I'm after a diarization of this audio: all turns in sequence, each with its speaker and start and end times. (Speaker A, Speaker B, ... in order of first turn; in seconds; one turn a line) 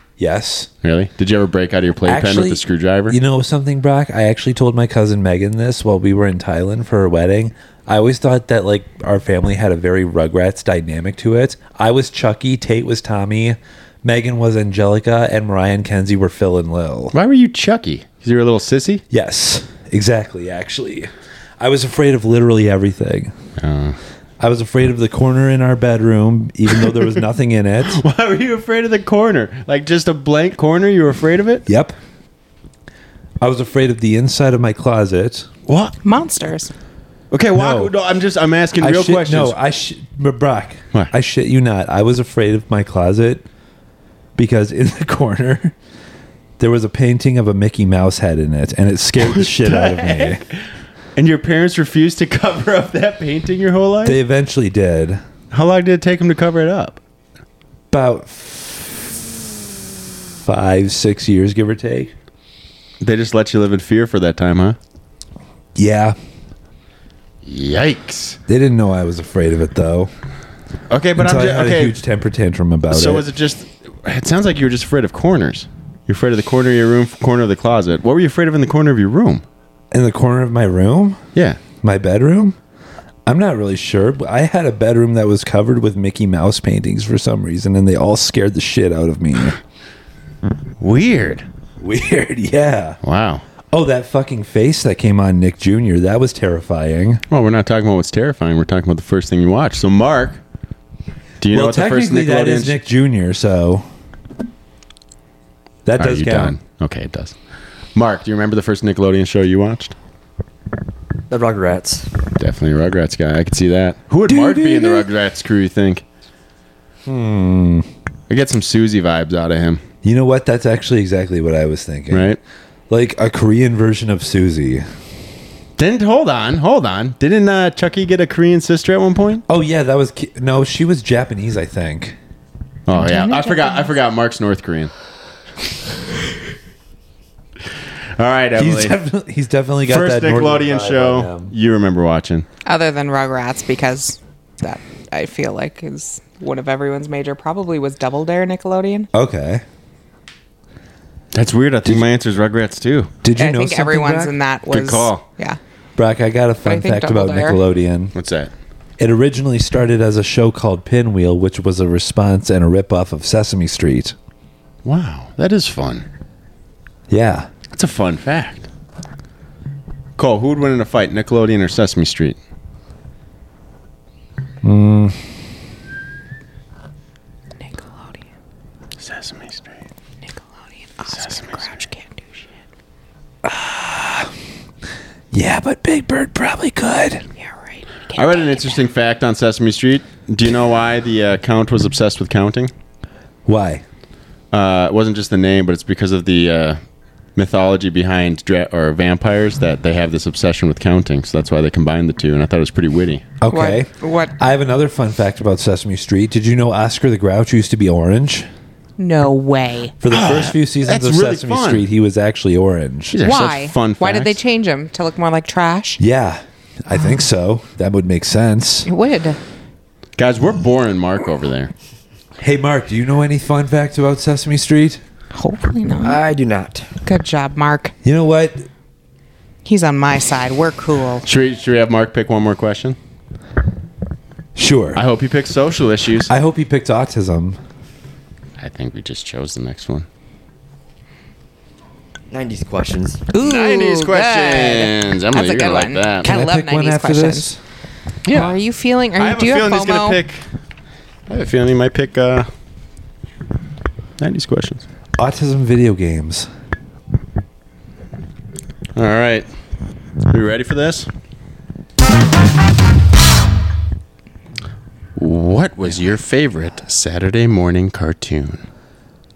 Speaker A: 0.2-0.7
Speaker B: 0.8-3.2
Speaker A: 2.0-17.1
Speaker B: 17.1-19.0
Speaker A: 19.1-23.3
Speaker B: 23.6-24.0
Speaker A: 24.4-28.0
Speaker B: 27.9-31.6
Speaker A: 31.7-31.9
Speaker A: 33.4-35.5
Speaker B: 35.7-36.0
Speaker C: 36.0-36.7
Speaker B: 37.3-39.5
Speaker A: 37.5-37.9
Speaker A: 38.8-43.4
Speaker A: 44.4-45.7
Speaker A: 46.6-50.4
Speaker B: 49.2-50.5
Speaker B: 51.1-54.2
Speaker A: 54.0-55.2
Speaker B: 55.5-57.0
Speaker A: 57.9-62.1
Speaker B: 63.0-64.8
Speaker A: 65.8-66.2
Speaker B: 67.4-68.4
Speaker A: 68.5-70.1
Speaker B: 70.9-72.0
Speaker A: 71.2-73.2
Speaker B: 72.9-79.4
Speaker A: 79.9-81.2
Speaker B: 81.3-81.6
Speaker A: 81.8-82.6
Speaker A: 83.2-89.6
Speaker B: 90.8-91.5
Speaker A: 91.8-93.0
Speaker B: 93.0-93.4
Speaker A: 93.7-97.2
Speaker B: 97.3-100.4
Speaker B: 101.4-102.8
Speaker A: 101.5-103.8
Speaker A: 105.8-106.6
Speaker B: 106.0-107.3
Speaker B: 107.9-109.9
Speaker D: 111.3-112.1
Speaker B: 112.4-116.0
Speaker A: 114.2-115.1
Speaker A: 117.0-117.9
Speaker B: 118.3-119.8
Speaker A: 120.0-122.4
Speaker B: 122.1-122.4
Speaker A: 122.9-124.8
Speaker B: 125.8-129.4
Speaker A: 129.5-132.2
Speaker B: 132.9-134.9
Speaker C: 132.9-133.9
Speaker B: 138.2-139.0
Speaker A: 138.6-141.5
Speaker B: 139.9-142.4
Speaker C: 142.7-149.1
Speaker A: 149.1-149.6
Speaker B: 151.3-153.1
Speaker A: 153.2-154.3
Speaker C: 153.4-155.6
Speaker B: 154.7-155.2
Speaker A: 155.9-158.1
Speaker C: 156.6-157.6
Speaker B: 158.1-158.5
Speaker A: 159.0-164.1
Speaker B: 164.8-166.1
Speaker A: 167.1-167.5
Speaker B: 167.7-168.7
Speaker B: 170.2-172.4
Speaker A: 174.6-175.2
Speaker C: 177.6-178.2
Speaker B: 179.0-179.7
Speaker C: 180.8-182.4
Speaker B: 181.2-181.7
Speaker A: 183.4-184.3
Speaker A: 185.3-187.2
Speaker C: 187.4-188.8
Speaker B: 188.1-192.7
Speaker A: 193.4-193.8
Speaker B: 194.5-196.8
Speaker B: 197.3-203.2
Speaker A: 203.4-208.5
Speaker C: 203.5-204.3
Speaker C: 209.0-209.9
Speaker A: 210.0-213.2
Speaker B: 210.1-211.8
Speaker B: 213.1-214.4
Speaker C: 213.2-216.0
Speaker A: 216.0-218.9
Speaker C: 218.8-219.4
Speaker B: 220.2-221.7
Speaker A: 222.4-225.0
Speaker C: 225.3-226.2
Speaker D: 226.0-226.9
Speaker C: 227.0-227.9
Speaker A: 228.0-228.6
Speaker C: 229.6-231.2
Speaker B: 231.2-233.0
Speaker A: 234.6-235.0
Speaker B: 234.9-236.3
Speaker A: 236.3-237.6
Speaker B: 238.6-240.1
Speaker D: 242.3-243.2
Speaker C: 243.3-247.5
Speaker B: 243.4-246.3
Speaker A: 246.2-247.6
Speaker B: 248.2-248.5
Speaker C: 248.3-250.2
Speaker B: 249.2-250.4
Speaker B: 251.3-252.5
Speaker B: 254.2-254.8
Speaker A: 255.2-256.5
Speaker B: 258.9-259.5
Speaker B: 260.3-261.1
Speaker B: 265.1-268.6